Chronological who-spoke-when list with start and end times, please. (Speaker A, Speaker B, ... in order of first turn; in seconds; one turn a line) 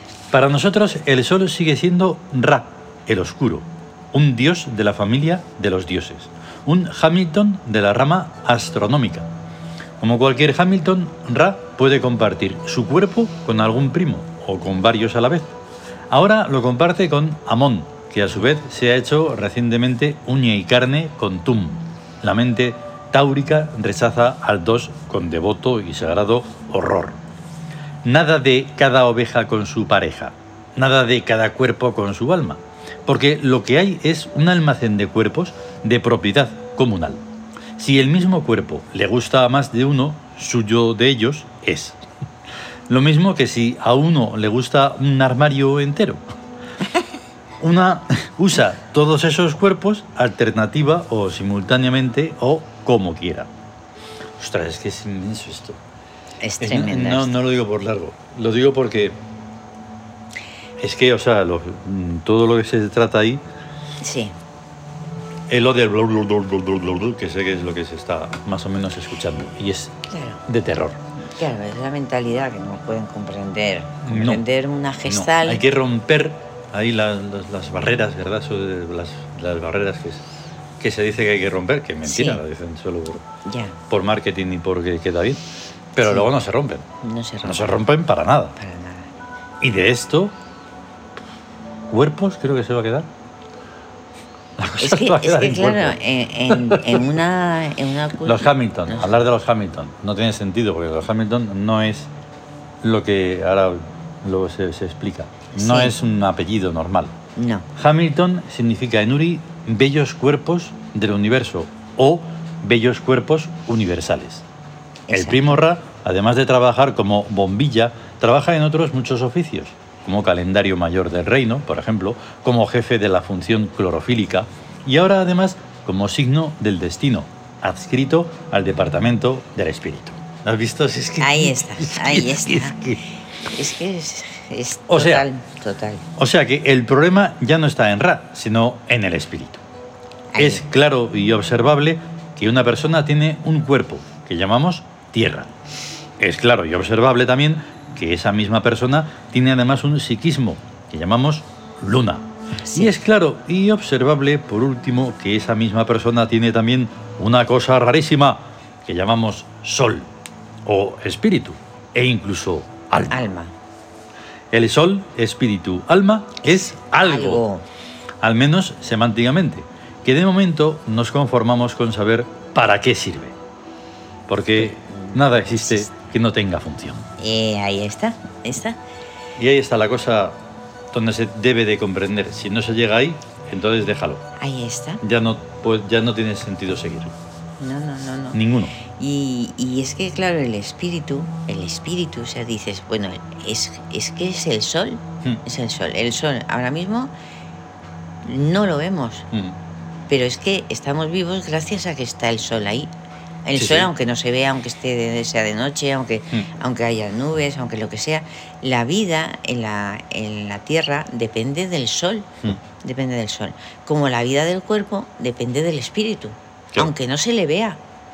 Speaker A: 0.3-9.3
Speaker A: 10.0-15.5
Speaker A: 16.1-27.2
Speaker A: 28.0-37.2
Speaker A: 37.8-42.0
Speaker A: 42.9-46.2
Speaker A: 47.6-53.5
Speaker A: 54.4-55.8
Speaker B: 56.4-57.4
Speaker A: 56.6-59.2
Speaker A: 60.8-63.4
Speaker B: 64.0-64.3
Speaker A: 65.5-69.9
Speaker B: 70.1-70.4
Speaker A: 70.5-71.0
Speaker B: 71.4-75.6
Speaker A: 74.0-74.4
Speaker A: 75.1-80.2
Speaker A: 80.8-83.2
Speaker B: 82.0-82.4
Speaker B: 83.4-83.8
Speaker A: 83.9-85.4
Speaker A: 85.9-86.8
Speaker B: 86.0-86.3
Speaker B: 87.0-87.8
Speaker A: 87.4-88.5
Speaker B: 88.5-89.1
Speaker A: 89.6-90.3
Speaker A: 91.9-93.1
Speaker A: 94.6-96.0
Speaker B: 94.8-99.2
Speaker A: 96.5-97.1
Speaker A: 98.2-102.1
Speaker A: 102.8-107.1
Speaker B: 105.5-106.0
Speaker B: 107.3-107.7
Speaker A: 107.8-114.4
Speaker B: 115.1-115.6
Speaker A: 115.1-133.0
Speaker B: 131.2-136.0
Speaker A: 134.9-135.2
Speaker A: 136.2-139.6
Speaker B: 140.3-140.6
Speaker A: 140.4-145.5
Speaker A: 146.2-160.1
Speaker B: 152.6-153.0
Speaker A: 160.6-163.3
Speaker B: 163.0-163.5
Speaker A: 164.5-167.4
Speaker B: 166.4-167.6
Speaker A: 168.2-173.3
Speaker A: 174.3-177.1
Speaker B: 174.6-175.9
Speaker B: 177.2-178.8
Speaker A: 179.4-180.4
Speaker A: 180.9-184.2
Speaker B: 184.4-185.0
Speaker A: 185.0-187.1
Speaker B: 187.6-197.1
Speaker A: 188.3-188.8
Speaker B: 198.2-199.3
Speaker B: 200.1-202.9
Speaker B: 203.4-212.3
Speaker A: 203.5-203.9
Speaker B: 212.8-217.8